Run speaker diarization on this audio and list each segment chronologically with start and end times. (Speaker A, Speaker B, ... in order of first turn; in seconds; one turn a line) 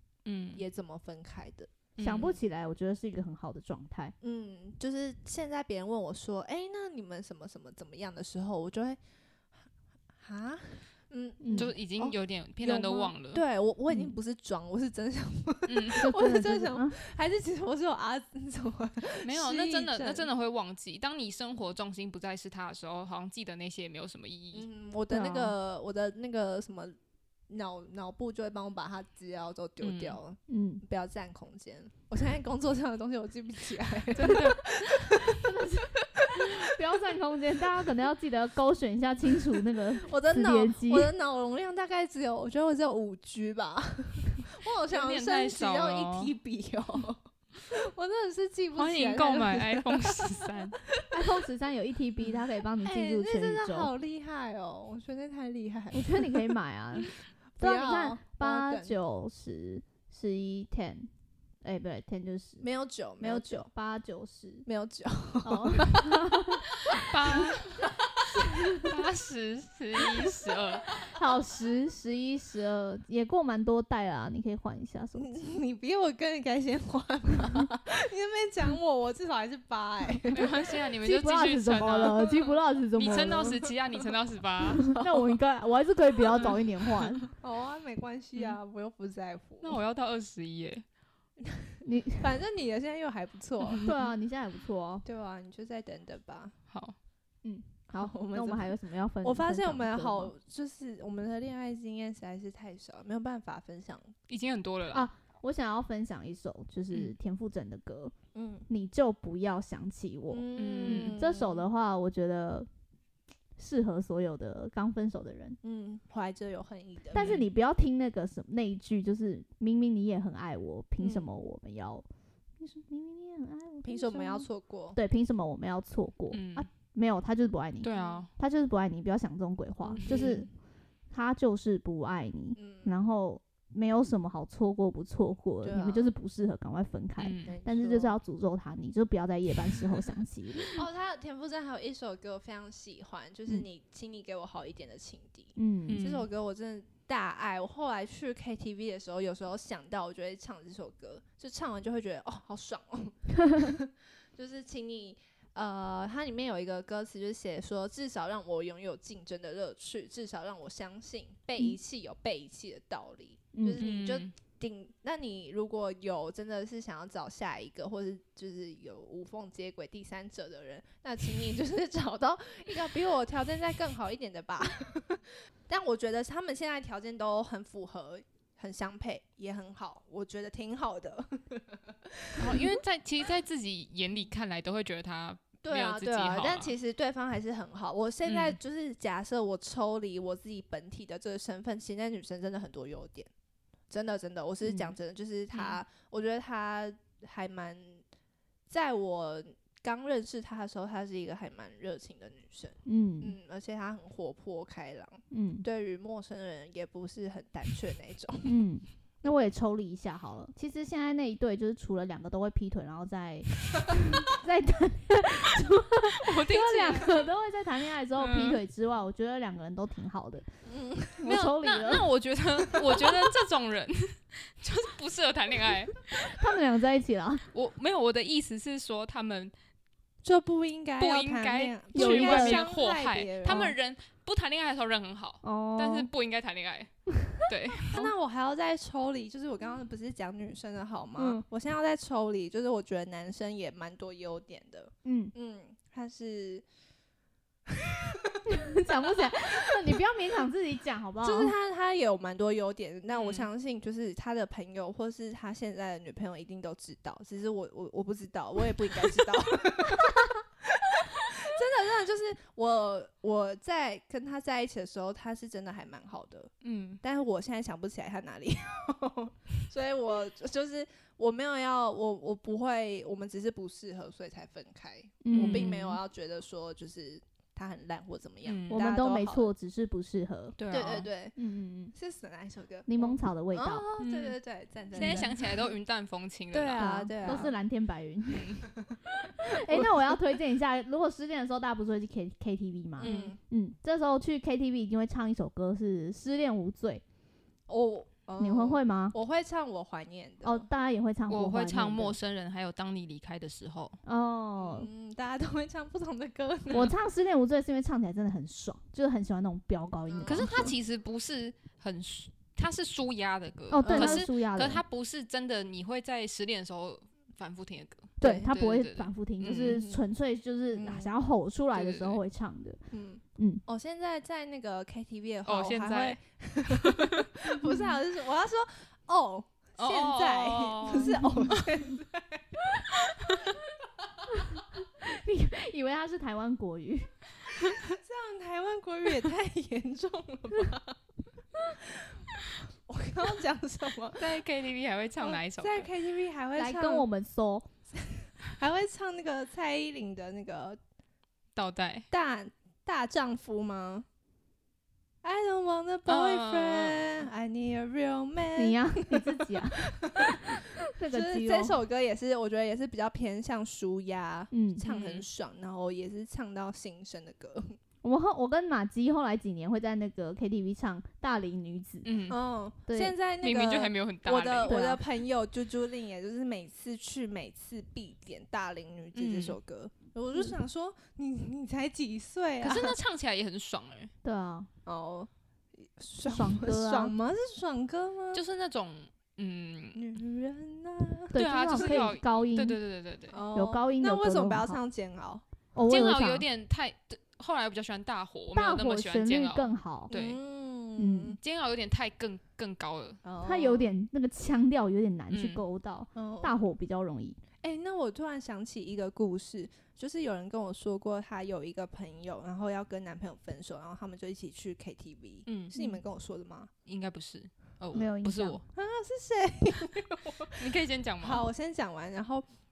Speaker A: 0.2-0.6
Speaker B: 0.5-1.7
Speaker A: 2.0-2.4
Speaker C: 2.0-4.1
Speaker B: 4.2-9.0
Speaker B: 10.2-20.3
Speaker C: 11.4-11.7
Speaker A: 11.5-13.4
Speaker A: 15.7-16.1
Speaker C: 16.0-17.0
Speaker A: 19.2-24.7
Speaker B: 24.5-26.9
Speaker C: 25.1-25.5
Speaker B: 27.5-35.4
Speaker A: 29.8-30.2
Speaker C: 30.5-30.8
Speaker A: 34.1-34.7
Speaker C: 35.2-41.1
Speaker B: 36.1-36.7
Speaker B: 40.0-50.4
Speaker A: 44.9-46.3
Speaker A: 48.8-50.8
Speaker C: 51.1-53.9
Speaker B: 52.8-56.5
Speaker C: 55.9-61.1
Speaker B: 57.5-58.9
Speaker C: 61.6-62.6
Speaker B: 62.6-63.7
Speaker C: 63.2-64.7
Speaker B: 64.7-66.2
Speaker C: 65.4-66.6
Speaker B: 66.9-67.9
Speaker A: 66.9-67.9
Speaker C: 68.3-68.9
Speaker A: 68.8-71.0
Speaker C: 71.1-75.3
Speaker B: 75.2-80.6
Speaker A: 80.3-82.3
Speaker C: 81.0-83.6
Speaker B: 81.8-82.5
Speaker A: 83.0-84.8
Speaker B: 84.8-85.3
Speaker C: 84.8-87.2
Speaker A: 86.3-86.6
Speaker B: 87.3-89.8
Speaker A: 89.6-90.8
Speaker B: 91.4-93.9
Speaker C: 91.8-92.2
Speaker A: 93.6-94.0
Speaker C: 93.8-95.0
Speaker B: 95.0-96.5
Speaker A: 96.7-97.0
Speaker C: 97.4-100.3
Speaker B: 97.9-104.1
Speaker A: 104.3-105.1
Speaker C: 104.9-108.1
Speaker B: 108.3-108.7
Speaker C: 108.7-112.7
Speaker B: 110.3-111.6
Speaker A: 110.6-111.2
Speaker C: 113.6-115.6
Speaker B: 115.6-117.3
Speaker C: 117.1-122.0
Speaker A: 117.2-117.4
Speaker B: 121.0-121.2
Speaker C: 122.6-130.5
Speaker B: 123.8-125.0
Speaker A: 126.3-126.7
Speaker A: 127.8-128.3
Speaker B: 127.9-128.2
Speaker A: 129.9-130.4
Speaker B: 129.9-130.5
Speaker C: 131.1-140.8
Speaker B: 132.6-133.0
Speaker B: 135.6-136.1
Speaker A: 137.2-137.5
Speaker B: 137.4-138.1
Speaker B: 140.6-182.7
Speaker C: 145.6-146.0
Speaker A: 145.9-146.3
Speaker C: 163.5-163.8
Speaker A: 163.8-164.3
Speaker A: 182.4-186.7
Speaker B: 185.6-193.3
Speaker A: 188.2-188.6
Speaker B: 193.9-198.0
Speaker C: 194.6-194.9
Speaker A: 195.5-195.8
Speaker B: 198.7-208.6
Speaker C: 202.8-203.3
Speaker C: 205.3-205.7
Speaker C: 208.4-220.5
Speaker A: 216.1-217.2
Speaker A: 218.2-218.6
Speaker B: 220.6-221.3
Speaker C: 221.2-222.1
Speaker A: 221.3-226.4
Speaker C: 226.2-227.4
Speaker A: 227.5-229.5
Speaker B: 230.2-233.7
Speaker A: 231.0-238.0
Speaker C: 231.9-232.7
Speaker C: 235.4-236.1
Speaker B: 237.9-246.6
Speaker C: 241.2-241.4
Speaker C: 245.0-245.3
Speaker B: 247.7-248.4
Speaker C: 248.4-251.5
Speaker B: 251.2-279.5
Speaker A: 253.1-253.5
Speaker A: 266.6-267.0
Speaker C: 275.2-275.8
Speaker A: 275.3-276.0
Speaker A: 278.4-278.8
Speaker C: 278.7-280.6
Speaker A: 280.6-281.1
Speaker B: 280.7-281.4
Speaker C: 281.4-281.9
Speaker B: 281.9-285.6
Speaker C: 282.9-283.8
Speaker A: 284.0-284.4
Speaker C: 284.9-285.3
Speaker A: 284.9-287.5
Speaker B: 286.5-287.5
Speaker C: 286.8-288.6
Speaker A: 288.3-288.6
Speaker B: 288.8-290.2
Speaker C: 289.2-297.0
Speaker A: 293.0-293.3
Speaker B: 293.0-293.4
Speaker B: 297.7-300.6
Speaker C: 298.4-299.1
Speaker C: 300.4-302.1
Speaker A: 301.3-304.0
Speaker C: 304.0-304.9
Speaker B: 304.6-306.9
Speaker C: 306.7-310.7
Speaker B: 310.1-310.7
Speaker A: 310.2-319.8
Speaker C: 313.7-314.8
Speaker B: 313.8-314.2
Speaker B: 318.2-318.5
Speaker C: 318.2-322.8
Speaker B: 319.4-320.0
Speaker B: 320.8-321.1
Speaker A: 321.7-322.2
Speaker B: 322.9-332.6
Speaker C: 323.4-323.6
Speaker A: 325.5-327.1
Speaker A: 329.8-331.6
Speaker C: 330.9-331.6
Speaker C: 334.3-337.1
Speaker B: 337.5-341.0
Speaker B: 341.8-342.1
Speaker B: 342.7-344.4
Speaker A: 344.2-345.9
Speaker B: 345.2-347.1
Speaker C: 346.6-347.7
Speaker B: 348.0-350.8
Speaker A: 351.5-352.1
Speaker B: 352.1-354.1
Speaker B: 355.2-367.8
Speaker A: 356.1-357.2
Speaker C: 358.6-361.8
Speaker C: 364.5-364.8
Speaker A: 364.9-365.2
Speaker C: 368.0-372.1
Speaker A: 372.0-372.4
Speaker B: 372.3-383.0
Speaker C: 372.9-373.1
Speaker A: 373.4-374.8
Speaker C: 374.6-375.0
Speaker A: 379.1-379.6
Speaker A: 382.6-384.1
Speaker C: 384.2-384.7
Speaker B: 384.9-385.3
Speaker B: 385.8-388.4
Speaker C: 386.2-387.1
Speaker A: 388.3-390.0
Speaker B: 389.9-392.0
Speaker C: 391.3-392.8
Speaker A: 391.3-393.4
Speaker B: 393.3-395.4
Speaker C: 393.5-394.8
Speaker C: 395.7-396.4
Speaker A: 395.9-400.4
Speaker C: 398.5-400.1
Speaker B: 400.1-401.4
Speaker C: 401.0-401.4
Speaker A: 401.4-403.2
Speaker B: 403.2-403.9
Speaker C: 403.4-407.4
Speaker A: 405.3-405.6
Speaker B: 406.1-406.5
Speaker B: 407.6-416.7
Speaker A: 415.5-415.7
Speaker A: 416.9-418.6
Speaker C: 417.9-418.6
Speaker B: 418.7-420.7
Speaker A: 420.6-421.5
Speaker B: 421.2-422.4